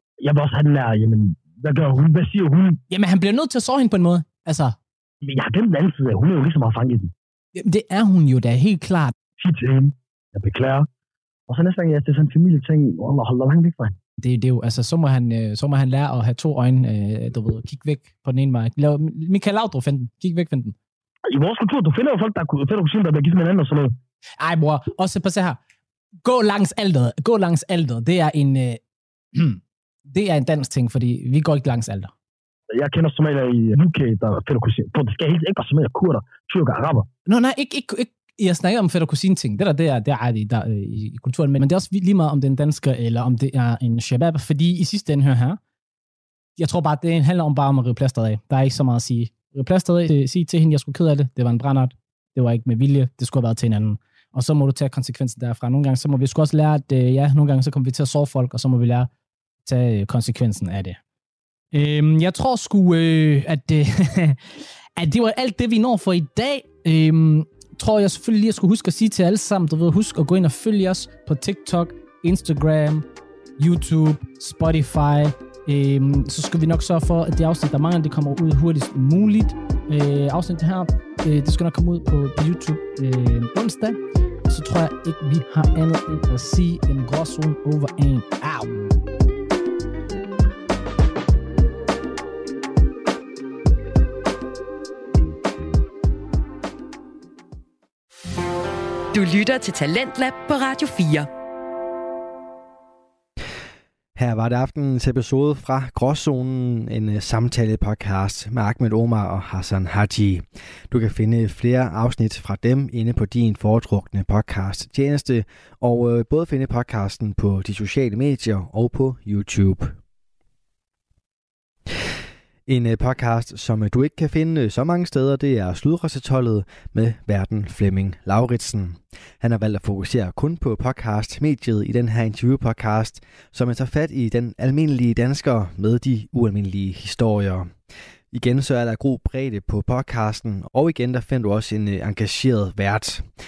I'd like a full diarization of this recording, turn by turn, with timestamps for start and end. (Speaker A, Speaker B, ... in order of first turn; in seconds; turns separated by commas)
Speaker A: 0.2-2.8, Speaker B: 2.9-4.8, Speaker A: 5.2-7.1, Speaker B: 7.5-9.1, Speaker A: 9.4-10.9, Speaker A: 11.5-14.0, Speaker B: 14.2-20.8, Speaker A: 21.3-23.9, Speaker B: 24.4-25.6, Speaker B: 26.2-28.8, Speaker B: 29.3-32.1, Speaker A: 32.7-37.1, Speaker B: 37.3-45.6, Speaker B: 46.6-59.1, Speaker B: 59.6-61.0, Speaker B: 61.7-64.4, Speaker B: 65.0-73.0, Speaker B: 73.6-88.8, Speaker C: 99.1-101.3, Speaker D: 104.2-120.0, Speaker D: 122.7-137.7, Speaker D: 138.3-143.3